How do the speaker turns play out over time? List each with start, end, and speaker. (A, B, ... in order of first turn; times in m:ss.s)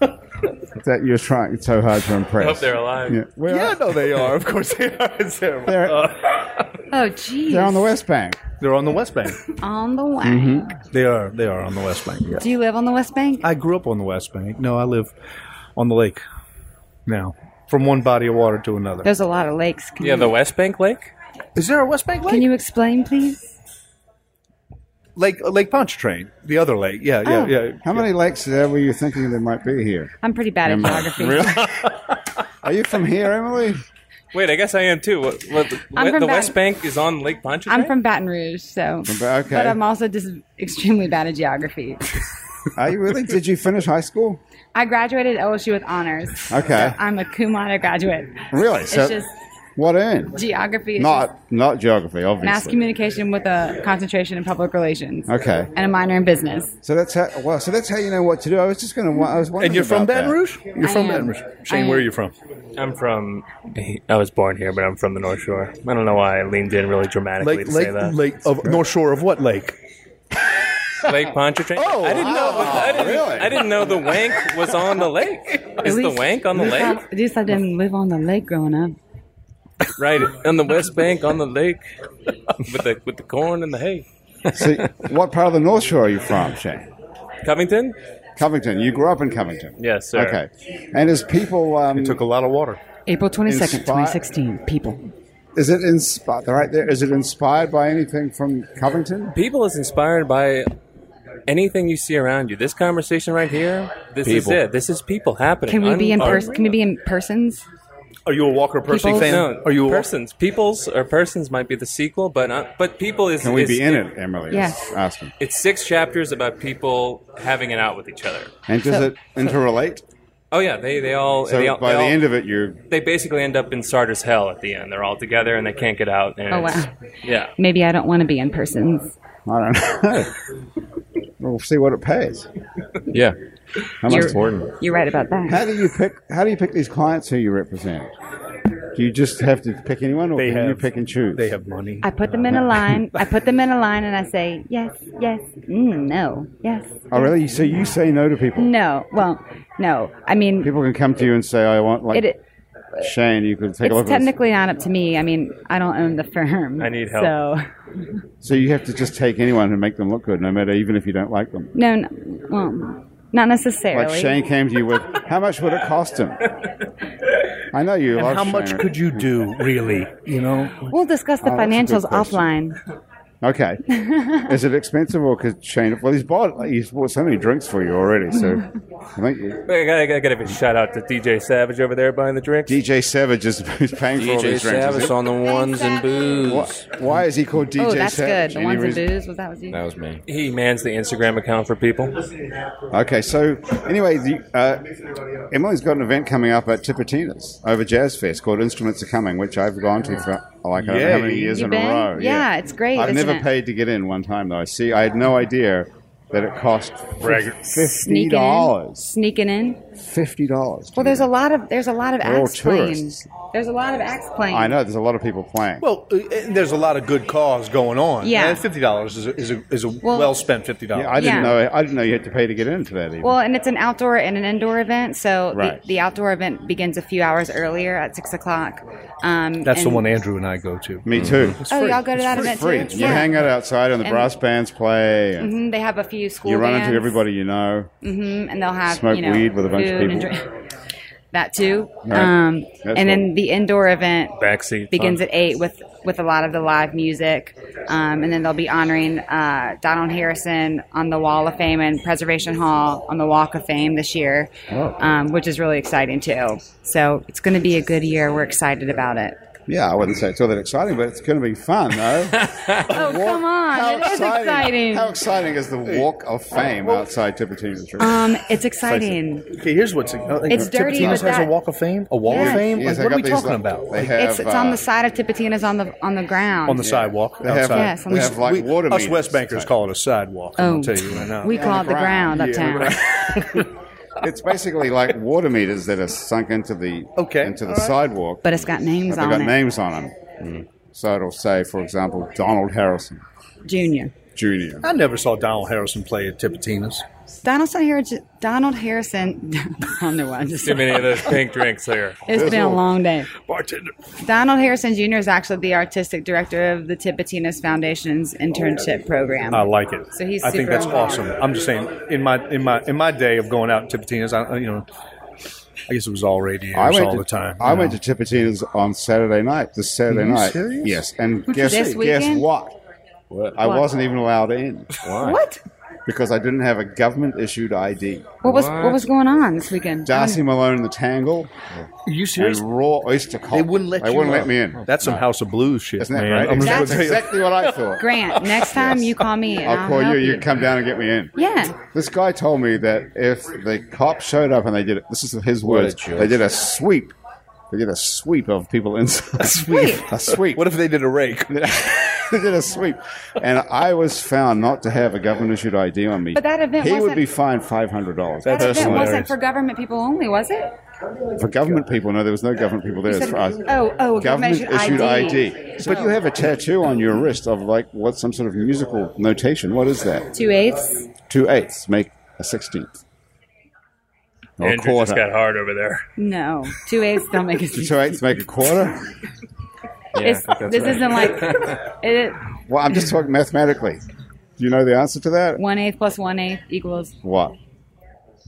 0:00.8-0:03.9 A
0:02.4-0:03.2 B
0:03.5-0:06.8 C
0:05.6-0:06.1 A
0:06.9-0:07.9 D
0:07.5-0:08.4 A
0:08.6-0:09.4 C
0:09.6-0:10.8 D
0:10.2-0:10.7 A
0:10.9-0:12.5 C
0:12.4-0:13.5 D
0:13.4-0:15.1 C
0:15.8-0:16.2 C
0:17.1-0:19.1 C
0:19.0-0:20.3 D
0:20.0-0:21.1 B
0:21.6-0:22.5 C
0:22.2-0:23.5 D
0:25.2-0:28.1 C
0:27.2-0:27.6 D
0:27.8-0:30.1 A
0:30.2-0:31.8 D
0:30.6-0:31.9 A
0:32.6-0:33.8 A
0:34.3-0:38.0 B
0:36.0-0:36.6 D
0:37.7-0:42.1 D
0:39.0-0:39.8 A
0:42.8-0:44.4 A
0:44.7-0:49.3 D
0:46.5-0:47.0 A
0:48.5-0:49.2 A
0:49.8-0:50.4 A
0:50.3-0:51.3 D
0:51.0-0:52.8 A
0:52.4-0:56.7 D
0:55.3-0:55.7 A
0:56.8-1:00.4 A
0:59.6-1:02.3 C
1:00.8-1:02.1 D
1:02.8-1:08.2 B
1:07.4-1:09.8 C
1:11.0-1:17.0 B
1:11.8-1:13.2 C
1:12.1-1:13.6 A
1:15.8-1:19.0 D
1:20.0-1:21.9 B
1:22.6-1:24.0 B
1:24.5-1:26.9 A
1:27.4-1:28.0 B
1:28.4-1:32.2 A
1:29.8-1:30.4 B
1:31.9-1:32.8 C
1:33.1-1:35.0 D
1:33.5-1:34.2 A
1:35.6-1:39.4 A
1:39.4-1:40.7 B
1:41.5-1:46.5 B
1:44.2-1:44.6 E
1:45.7-1:47.6 D
1:46.2-1:46.7 C
1:48.3-1:50.1 C
1:48.8-1:49.5 D
1:49.1-1:54.1 B
1:53.4-1:55.3 A
1:54.5-1:54.8 D
1:55.4-1:58.5 B
1:58.7-2:00.1 A
1:58.9-1:59.1 D
2:00.5-2:02.2 B
2:01.5-2:02.8 A
2:02.9-2:07.5 B
2:06.5-2:06.9 D
2:07.6-2:09.2 D
2:09.5-2:10.4 A
2:11.4-2:12.5 A
2:13.1-2:13.4 E
2:14.0-2:14.4 A
2:14.1-2:14.7 E
2:14.1-2:15.7 D
2:15.5-2:18.1 A
2:19.0-2:21.6 A
2:20.4-2:22.2 C
2:22.0-2:27.3 D
2:22.5-2:23.0 A
2:23.1-2:23.4 C
2:27.1-2:28.7 A
2:28.6-2:30.7 D
2:30.6-2:32.3 A
2:32.1-2:32.4 D
2:33.0-2:34.3 A
2:33.8-2:37.7 D
2:36.8-2:37.4 B
2:38.4-2:41.7 A
2:41.7-2:44.4 D
2:43.9-2:46.5 A
2:47.7-2:49.4 A
2:48.2-2:50.8 C
2:50.8-2:52.8 D
2:51.4-2:52.5 A
2:53.4-2:53.8 A
2:53.9-2:54.5 D
2:54.4-2:59.7 A
2:59.7-3:02.8 B
3:02.7-3:05.2 A
3:04.2-3:06.9 E
3:05.4-3:06.5 D
3:06.4-3:09.1 A
3:07.8-3:09.8 D
3:09.7-3:10.2 E
3:10.3-3:12.2 B
3:12.9-3:15.0 A
3:15.5-3:29.2 A
3:20.8-3:21.6 C
3:21.5-3:23.5 D
3:27.2-3:27.6 C
3:27.8-3:29.8 D
3:30.0-3:31.3 A
3:31.0-3:34.8 D
3:32.2-3:33.3 A
3:34.5-3:35.9 A
3:35.8-3:41.6 C
3:38.2-3:38.7 D
3:40.0-3:40.4 D
3:40.9-3:43.4 A
3:41.2-3:41.6 D
3:43.2-3:50.2 D
3:45.5-3:45.8 A
3:49.6-3:53.3 C
3:51.0-3:51.6 A
3:51.1-3:51.6 E
3:51.7-3:53.4 D
3:52.3-3:55.5 A
3:54.0-3:54.3 D
3:55.4-3:57.2 D
3:56.4-3:57.9 A
3:58.0-4:00.4 D
3:58.9-4:00.3 A
4:01.3-4:04.4 D
4:02.0-4:03.3 A
4:04.4-4:05.2 B
4:04.9-4:19.4 D
4:14.7-4:15.0 A
4:19.7-4:29.2 A
4:22.9-4:25.2 D
4:26.7-4:27.1 C
4:28.0-4:29.5 D
4:29.5-4:34.1 C
4:30.5-4:31.6 D
4:30.5-4:31.2 A
4:32.2-4:32.7 D
4:32.3-4:34.8 A
4:34.1-4:37.1 D
4:36.7-4:41.9 C
4:36.8-4:39.7 A
4:37.7-4:38.3 D
4:40.6-4:43.1 D
4:41.4-4:48.4 A
4:42.4-4:43.7 C
4:47.2-4:48.0 C
4:48.4-4:49.6 D
4:49.1-4:50.2 A
4:50.9-4:53.2 A
4:53.7-4:54.1 D
4:54.4-4:54.9 A
4:54.8-4:57.0 C
4:57.4-5:01.4 D
5:00.6-5:02.4 B
5:02.3-5:03.3 D
5:02.3-5:02.8 A
5:02.4-5:02.8 C
5:03.4-5:03.9 C
5:04.2-5:11.3 D
5:09.5-5:14.9 C
5:15.9-5:18.0 C
5:16.7-5:22.8 A
5:20.1-5:21.0 C
5:21.5-5:22.5 D
5:23.3-5:23.6 E
5:23.6-5:25.0 A
5:25.0-5:25.4 E
5:25.2-5:25.6 D
5:26.1-5:28.4 A
5:28.4-5:30.4 D
5:28.4-5:29.1 E
5:30.0-5:31.5 A
5:32.1-5:32.6 C
5:32.3-5:35.3 A
5:33.5-5:37.5 C
5:36.0-5:47.2 A
5:36.5-5:37.2 D
5:38.0-5:40.6 D
5:41.4-5:41.8 D
5:45.6-5:46.4 E
5:47.7-5:50.8 A
5:49.4-5:51.6 C
5:49.6-5:50.1 D
5:51.5-5:59.2 A
5:56.3-5:57.2 D
5:58.4-5:59.3 C
5:58.5-6:00.8 D
6:01.4-6:10.3 A
6:03.1-6:06.1 D
6:10.3-6:11.1 D
6:11.3-6:13.0 A
6:14.6-6:15.3 A
6:14.6-6:16.1 B
6:16.2-6:18.2 D
6:17.7-6:19.1 A
6:20.2-6:21.8 E
6:20.2-6:22.4 D
6:22.7-6:24.0 A
6:24.6-6:25.6 A
6:25.6-6:27.2 D
6:27.2-6:27.6 A